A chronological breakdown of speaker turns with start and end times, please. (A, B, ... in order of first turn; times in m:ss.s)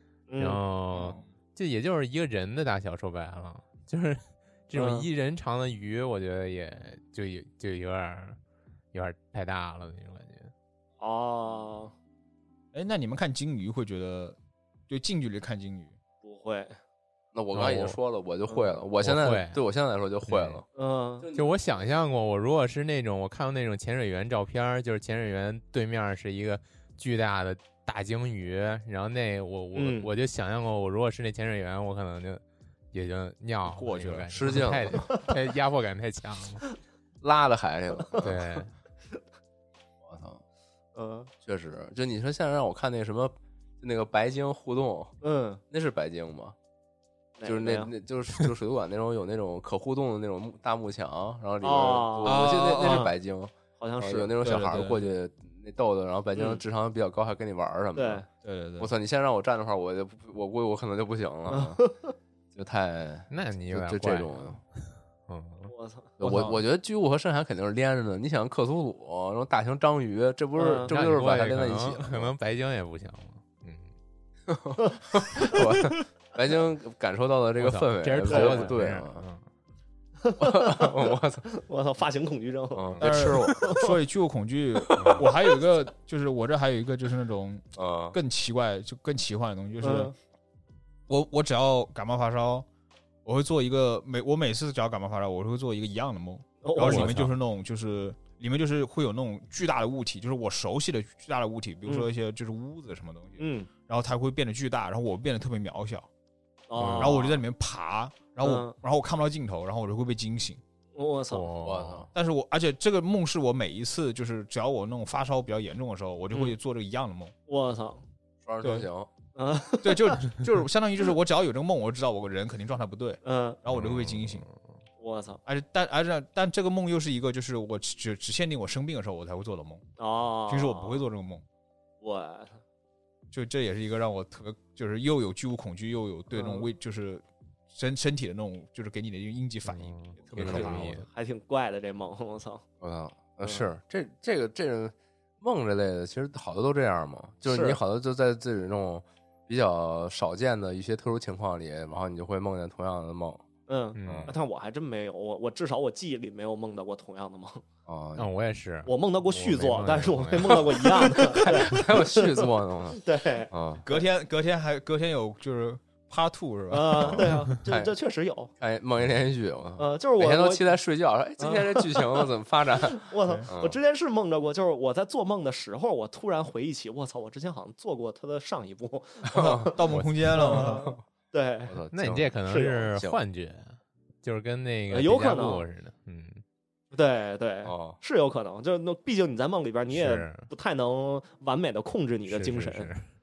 0:00.3-0:00.6 A
0:00.4-0:08.4 B
0:00.9-0:01.3 C
0:04.7-0:05.1 A
0:08.9-0:10.5 B
0:11.0-0:11.9 A
0:12.7-0:14.4 C
0:14.9-0:15.9 C
0:16.2-0:16.8 A
0:17.3-0:20.6 D
0:17.5-0:18.0 B
0:18.5-0:18.7 A
0:19.0-0:19.6 B
0:20.3-0:20.6 B
0:20.7-0:21.2 A
0:21.2-0:21.7 D
0:21.3-0:36.6 B
0:29.7-0:30.1 A
0:33.7-0:34.6 C
0:34.3-0:35.1 D
0:37.2-0:38.6 D
0:38.2-0:38.7 B
0:40.0-0:40.4 D
0:40.9-0:41.3 A
0:41.4-0:45.1 D
0:45.2-0:45.6 A
0:45.7-0:46.5 D
0:47.4-0:47.9 A
0:47.4-0:58.2 D
0:51.6-0:53.1 A
0:52.2-0:53.0 C
0:53.8-0:54.3 A
0:54.4-0:55.1 C
0:56.3-0:56.6 A
0:58.0-0:58.2 A
0:58.4-0:58.9 C
0:58.8-1:01.8 D
1:01.5-1:02.1 A
1:02.5-1:04.6 D
1:03.3-1:05.7 B
1:05.7-1:06.1 A
1:06.2-1:12.3 D
1:06.2-1:06.6 C
1:10.6-1:10.9 A
1:10.9-1:13.9 B
1:14.5-1:19.2 D
1:17.6-1:19.4 B
1:18.3-1:18.7 A
1:20.2-1:21.0 A
1:20.4-1:21.4 D
1:21.5-1:23.9 A
1:22.7-1:23.7 D
1:23.0-1:30.1 C
1:24.9-1:25.4 D
1:25.0-1:25.3 B
1:27.8-1:28.2 D
1:29.8-1:30.1 A
1:31.1-1:32.6 C
1:33.2-1:46.1 C
1:36.6-1:37.2 A
1:36.8-1:37.3 B
1:43.4-1:43.7 A
1:46.7-1:47.4 A
1:46.8-1:47.2 B
1:47.0-1:50.6 C
1:48.4-1:48.7 A
1:50.9-1:51.5 A
1:51.3-1:52.1 B
1:51.6-1:52.1 D
1:52.1-1:57.3 C
1:57.5-1:58.0 A
1:58.4-1:59.1 D
1:59.4-2:00.2 A
1:59.8-2:04.4 C
2:03.2-2:03.6 A
2:03.7-2:04.6 B
2:05.0-2:05.4 A
2:05.4-2:09.8 C
2:10.0-2:11.0 A
2:10.5-2:11.4 C
2:12.0-2:12.6 A
2:13.3-2:21.0 C
2:16.3-2:16.7 A
2:19.6-2:21.0 B
2:20.4-2:22.6 A
2:20.4-2:20.8 D
2:22.8-2:33.4 D
2:27.5-2:27.8 A
2:33.7-2:37.6 A
2:34.0-2:34.3 B
2:34.0-2:34.3 D
2:37.8-2:38.3 D
2:38.2-2:40.9 B
2:38.8-2:44.0 A
2:41.0-2:43.0 D
2:43.5-2:43.8 D
2:43.8-2:47.3 C
2:46.7-2:48.5 A
2:47.7-2:47.9 D
2:48.6-2:53.8 D
2:49.8-2:50.6 A
2:51.4-2:52.3 A
2:52.9-2:59.8 A
2:59.3-2:59.7 D
2:59.6-3:00.8 C
2:59.9-3:00.5 B
3:00.3-3:01.7 A
3:00.5-3:01.0 D
3:01.7-3:02.3 D
3:01.9-3:06.4 B
3:02.5-3:02.9 A
3:04.9-3:05.6 A
3:06.9-3:12.9 A
3:07.6-3:08.0 D
3:09.9-3:10.5 B
3:12.3-3:13.1 B